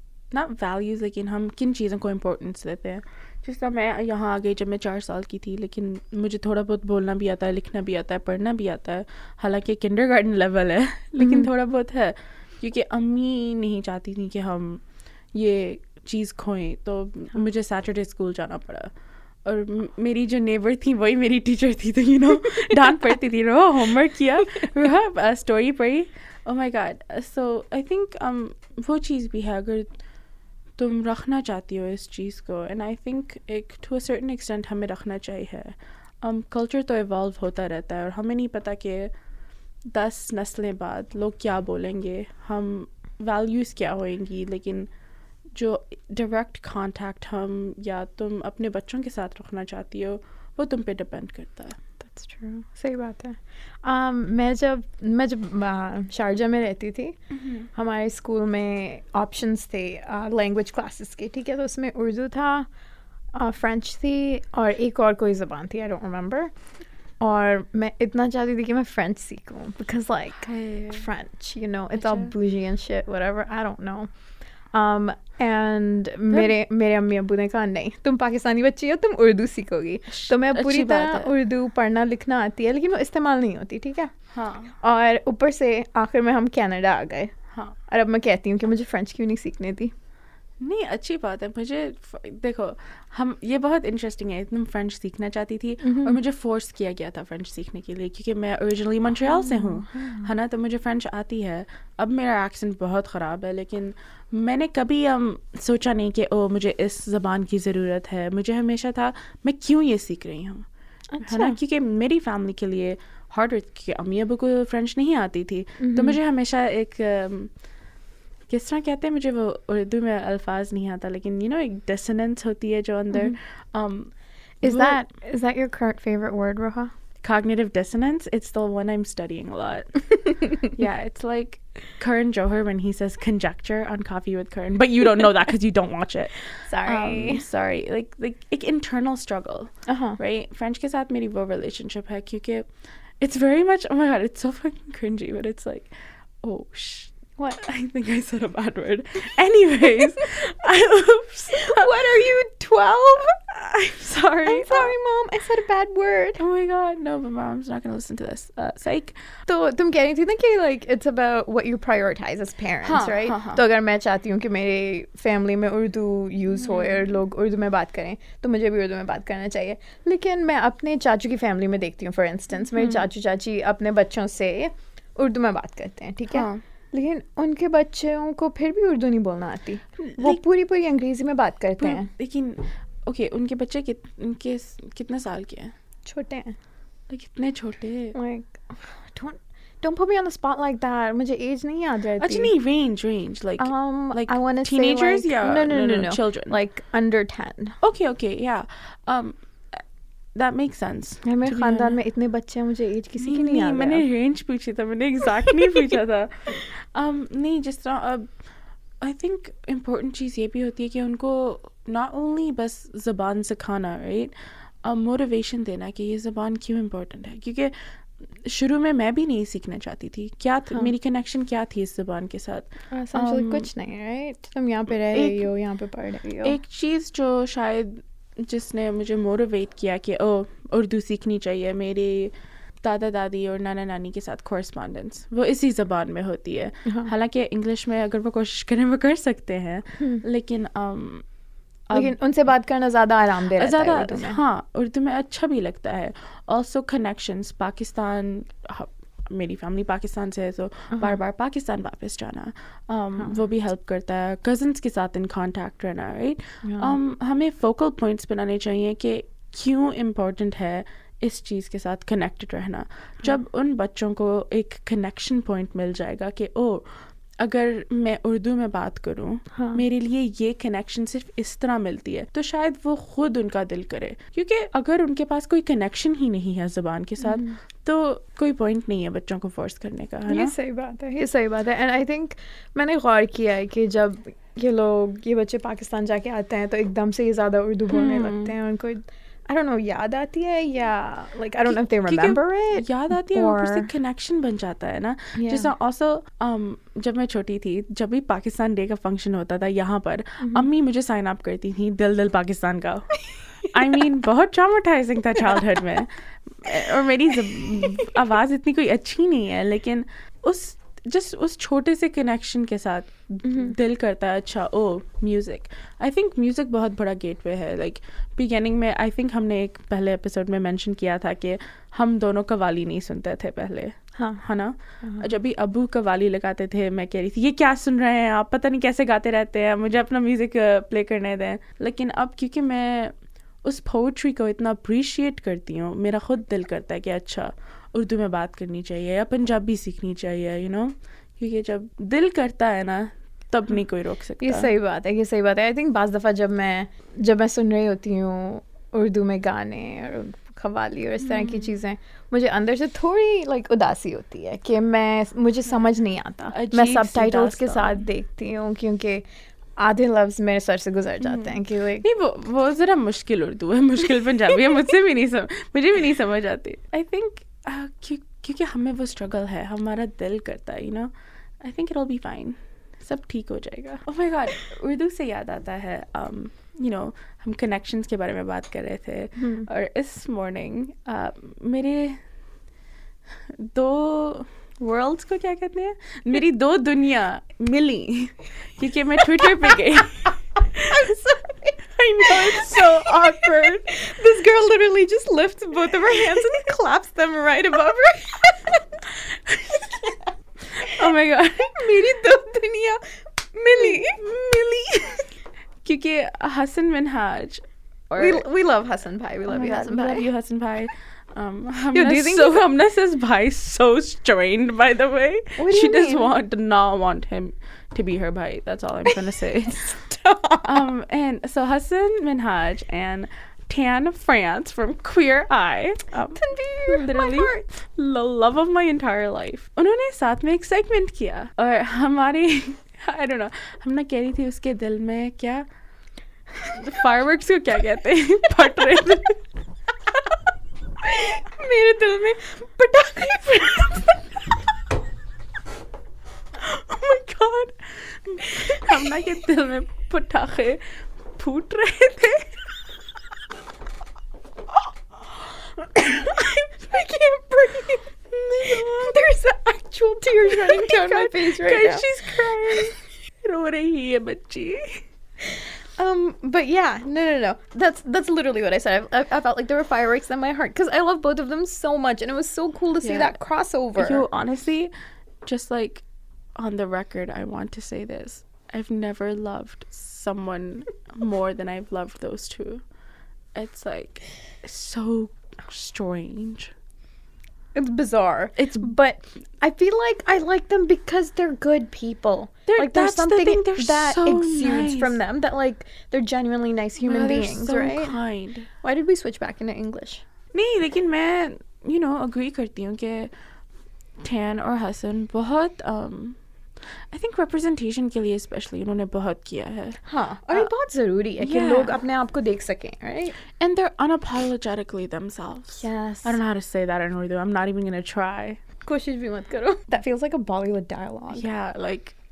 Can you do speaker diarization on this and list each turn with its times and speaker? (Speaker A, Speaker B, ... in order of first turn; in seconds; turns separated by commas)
Speaker A: 0.3-14.8, Speaker B: 11.2-11.5, Speaker A: 15.3-18.9, Speaker A: 19.4-29.9, Speaker A: 30.8-39.1, Speaker A: 39.9-44.9, Speaker A: 45.5-51.8, Speaker B: 52.0-57.2, Speaker A: 57.3-57.7, Speaker B: 57.7-62.7, Speaker B: 63.3-66.5, Speaker B: 67.2-74.1, Speaker A: 70.4-71.0, Speaker A: 72.0-72.3, Speaker B: 74.7-84.1, Speaker A: 80.1-81.3, Speaker A: 84.3-84.7, Speaker B: 84.8-87.3, Speaker B: 87.9-89.9, Speaker A: 90.6-110.7, Speaker B: 95.8-96.2, Speaker B: 99.2-100.3, Speaker B: 111.1-111.6, Speaker A: 111.2-117.5, Speaker B: 115.8-116.2, Speaker A: 118.5-124.1, Speaker B: 124.6-126.9, Speaker A: 124.6-125.0, Speaker A: 127.2-142.7, Speaker B: 136.7-137.4, Speaker B: 139.9-140.2, Speaker A: 143.2-145.9, Speaker A: 146.4-152.1, Speaker B: 151.5-153.3, Speaker A: 153.5-154.9, Speaker B: 154.4-156.4, Speaker A: 156.4-159.2, Speaker B: 159.5-182.1, Speaker A: 162.8-163.6, Speaker A: 166.6-167.1, Speaker A: 172.8-173.0, Speaker A: 176.3-176.6, Speaker A: 180.0-180.4, Speaker A: 181.8-185.7, Speaker B: 186.1-186.6, Speaker A: 187.1-188.2, Speaker B: 188.1-192.5, Speaker A: 192.2-196.5, Speaker B: 193.6-197.8, Speaker A: 197.8-199.4, Speaker A: 200.3-201.9, Speaker B: 201.2-204.0, Speaker A: 203.2-208.2, Speaker A: 209.0-217.7, Speaker A: 218.4-223.7, Speaker B: 222.9-226.6, Speaker A: 225.1-225.5, Speaker A: 226.4-241.2, Speaker A: 241.9-242.1, Speaker B: 241.9-244.4, Speaker A: 243.6-266.9, Speaker B: 256.6-256.9, Speaker A: 267.4-280.5, Speaker B: 269.5-269.8, Speaker B: 277.2-277.5, Speaker B: 280.3-293.9, Speaker A: 287.9-288.5, Speaker A: 291.6-344.7, Speaker B: 295.4-295.7, Speaker B: 307.5-308.1, Speaker B: 324.1-324.4, Speaker B: 344.4-359.2, Speaker A: 351.2-351.7, Speaker A: 356.5-358.0, Speaker B: 359.8-362.0, Speaker A: 361.2-382.2, Speaker B: 379.4-379.7, Speaker A: 383.6-391.1, Speaker B: 390.7-399.1, Speaker A: 391.8-393.9, Speaker B: 399.7-400.3, Speaker A: 400.7-401.9, Speaker B: 400.8-401.1, Speaker B: 401.6-404.2, Speaker A: 403.8-405.3, Speaker A: 405.8-408.4, Speaker B: 408.2-410.3, Speaker A: 409.5-420.0, Speaker B: 411.9-412.7, Speaker B: 415.6-416.3, Speaker B: 419.9-420.8, Speaker A: 420.6-435.6, Speaker B: 426.3-427.7, Speaker A: 436.6-439.4, Speaker B: 441.0-444.2, Speaker A: 446.6-450.8, Speaker B: 448.5-448.9, Speaker A: 451.3-452.6, Speaker B: 455.9-462.1, Speaker A: 458.3-459.2, Speaker A: 460.4-465.0, Speaker B: 466.0-474.2, Speaker A: 473.0-473.4, Speaker A: 474.0-474.9, Speaker A: 475.4-476.0, Speaker A: 476.6-482.8, Speaker A: 483.5-486.7, Speaker B: 487.7-498.2, Speaker A: 488.6-488.9, Speaker A: 492.7-495.2, Speaker A: 497.0-498.7, Speaker B: 498.8-500.2, Speaker A: 500.5-503.3, Speaker A: 504.2-506.4, Speaker A: 507.1-510.0, Speaker B: 510.1-513.3, Speaker A: 511.4-511.9, Speaker A: 513.6-518.6, Speaker B: 515.8-516.4, Speaker B: 518.8-521.5, Speaker A: 521.3-522.1